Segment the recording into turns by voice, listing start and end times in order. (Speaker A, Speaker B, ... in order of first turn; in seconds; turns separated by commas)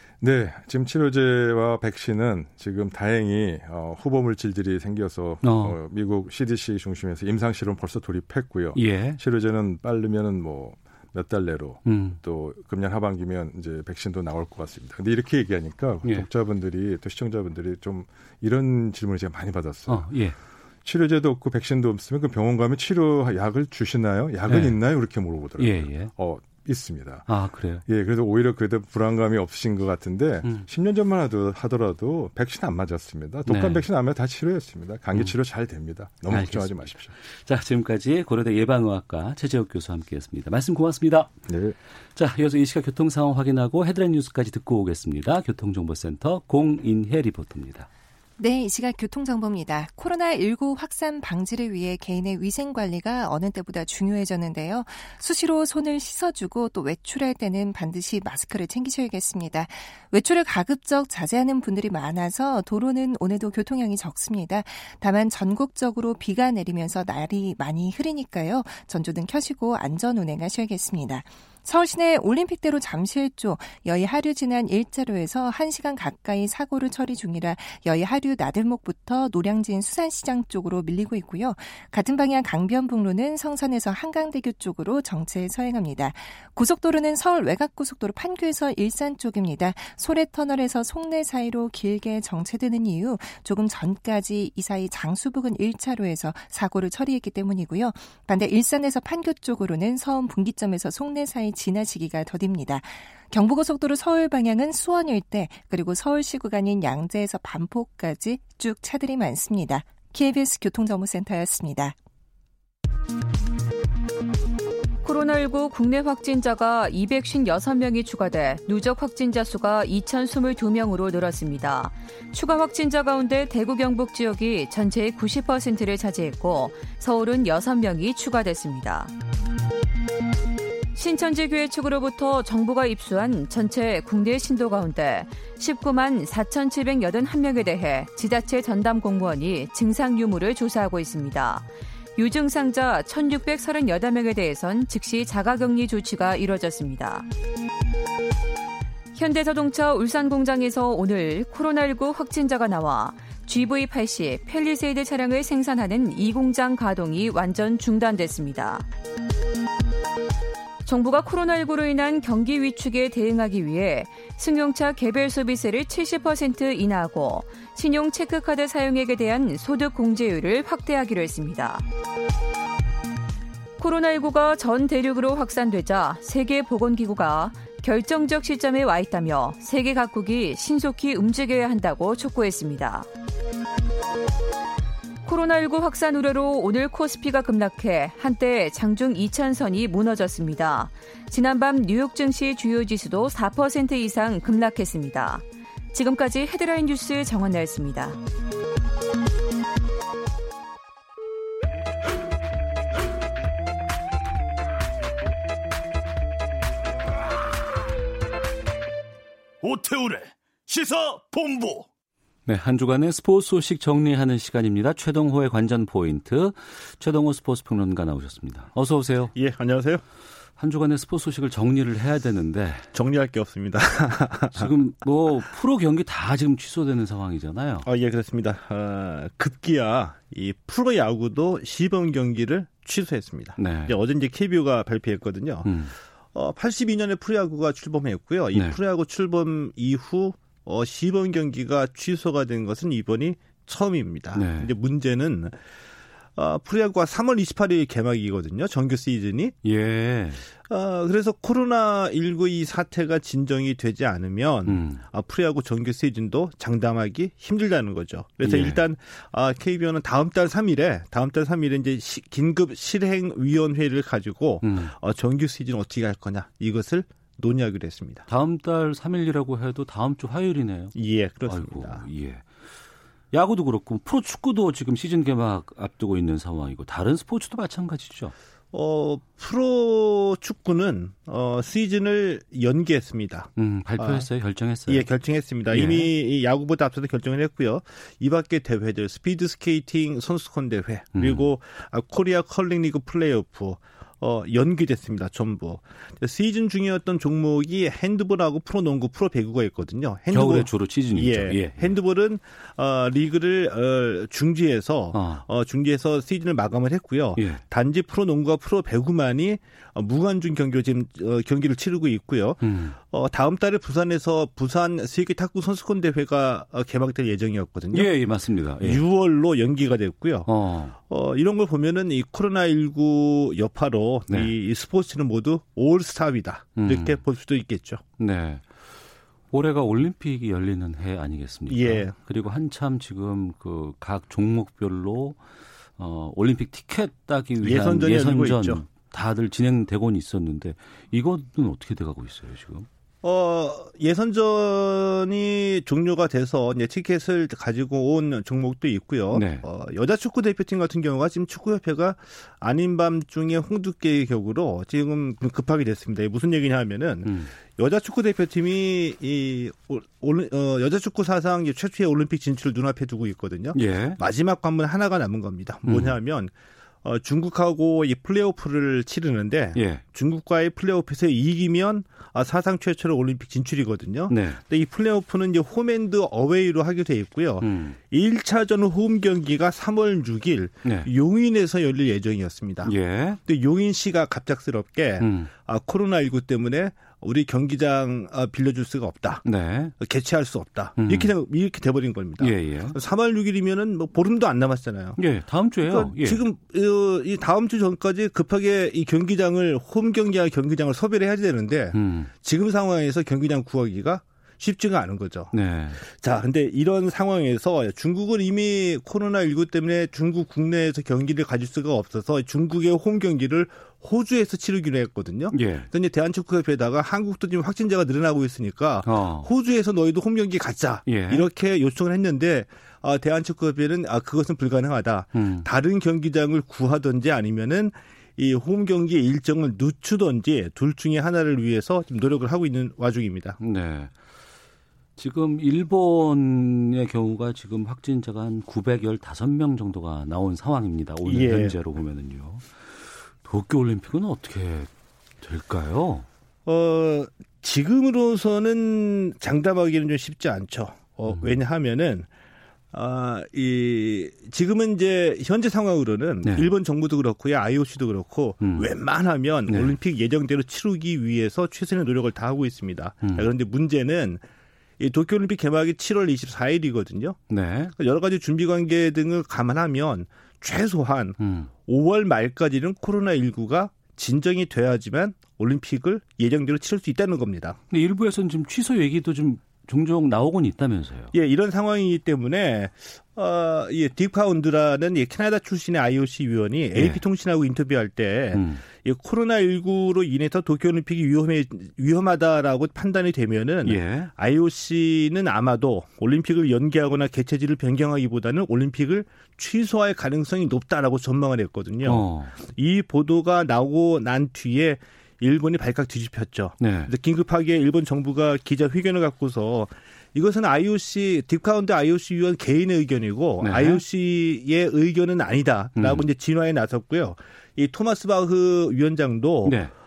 Speaker A: 0.2-20.1, Speaker B: 5.4-5.8, Speaker B: 8.7-9.2, Speaker B: 11.8-12.2, Speaker B: 19.9-20.4, Speaker A: 20.8-27.3, Speaker B: 24.5-24.8, Speaker B: 25.6-26.1, Speaker B: 27.3-27.8, Speaker A: 27.9-37.1, Speaker B: 33.5-33.8, Speaker B: 36.3-41.3, Speaker A: 41.5-41.7, Speaker B: 42.1-47.9, Speaker C: 48.4-111.9, Speaker D: 115.0-129.1, Speaker D: 130.9-147.3, Speaker D: 149.1-158.9, Speaker D: 160.8-171.8, Speaker D: 173.8-183.1, Speaker D: 185.2-198.2, Speaker E: 209.6-211.9, Speaker B: 212.5-219.3, Speaker F: 219.3-220.0, Speaker B: 220.6-222.9, Speaker F: 222.9-224.7, Speaker B: 224.5-227.9, Speaker F: 227.8-235.7, Speaker B: 233.6-233.9, Speaker B: 235.6-235.9, Speaker F: 236.3-245.6, Speaker B: 238.5-238.8, Speaker B: 244.3-244.7, Speaker F: 246.3-249.5, Speaker B: 249.6-250.4, Speaker F: 250.7-268.2, Speaker B: 254.7-255.0, Speaker B: 258.4-258.8, Speaker B: 264.6-264.9, Speaker B: 268.3-270.9, Speaker F: 270.9-272.0, Speaker B: 271.5-272.5, Speaker B: 273.3-278.3, Speaker F: 278.7-284.3, Speaker B: 283.6-285.0, Speaker F: 284.9-318.1, Speaker B: 285.7-286.1, Speaker B: 291.1-291.5, Speaker B: 300.3-302.0, Speaker B: 305.1-305.4, Speaker B: 307.4-307.6, Speaker B: 312.6-313.0, Speaker B: 317.9-319.0, Speaker F: 318.8-328.0, Speaker B: 320.4-320.9, Speaker B: 326.8-327.2, Speaker B: 328.2-328.6, Speaker B: 329.5-335.4, Speaker F: 331.7-332.1, Speaker B: 336.0-342.9, Speaker F: 337.6-338.8, Speaker F: 343.2-366.5, Speaker B: 349.3-349.6, Speaker B: 357.2-357.5, Speaker B: 363.7-364.2, Speaker B: 365.8-366.1, Speaker F: 367.0-382.9, Speaker B: 369.7-370.0, Speaker B: 374.3-374.6, Speaker B: 377.6-378.0, Speaker B: 380.8-381.1, Speaker B: 382.8-383.4, Speaker F: 383.4-389.4, Speaker B: 385.2-385.5, Speaker B: 389.4-389.9, Speaker F: 390.0-395.2, Speaker B: 391.0-391.3, Speaker B: 392.4-393.0, Speaker B: 395.2-396.4, Speaker F: 395.8-433.6, Speaker B: 401.9-402.3, Speaker B: 405.5-406.0, Speaker B: 415.5-415.9, Speaker B: 419.0-419.5, Speaker B: 421.1-421.4, Speaker B: 425.3-425.7, Speaker B: 433.6-434.1, Speaker B: 435.2-444.9, Speaker F: 441.2-441.7, Speaker B: 445.4-446.2, Speaker F: 446.6-452.3, Speaker B: 451.3-451.6, Speaker F: 452.9-464.4, Speaker B: 456.4-456.7, Speaker B: 458.6-458.9, Speaker B: 459.7-459.9, Speaker B: 463.2-463.5, Speaker F: 465.0-467.4, Speaker B: 467.5-467.9, Speaker F: 468.0-477.8, Speaker B: 471.4-471.7, Speaker B: 477.9-481.3, Speaker F: 481.3-519.8, Speaker B: 486.9-487.2, Speaker B: 488.5-488.8, Speaker B: 493.8-494.3, Speaker B: 502.0-502.5, Speaker B: 506.8-507.1, Speaker B: 513.6-514.0, Speaker B: 516.0-516.3, Speaker B: 519.6-519.9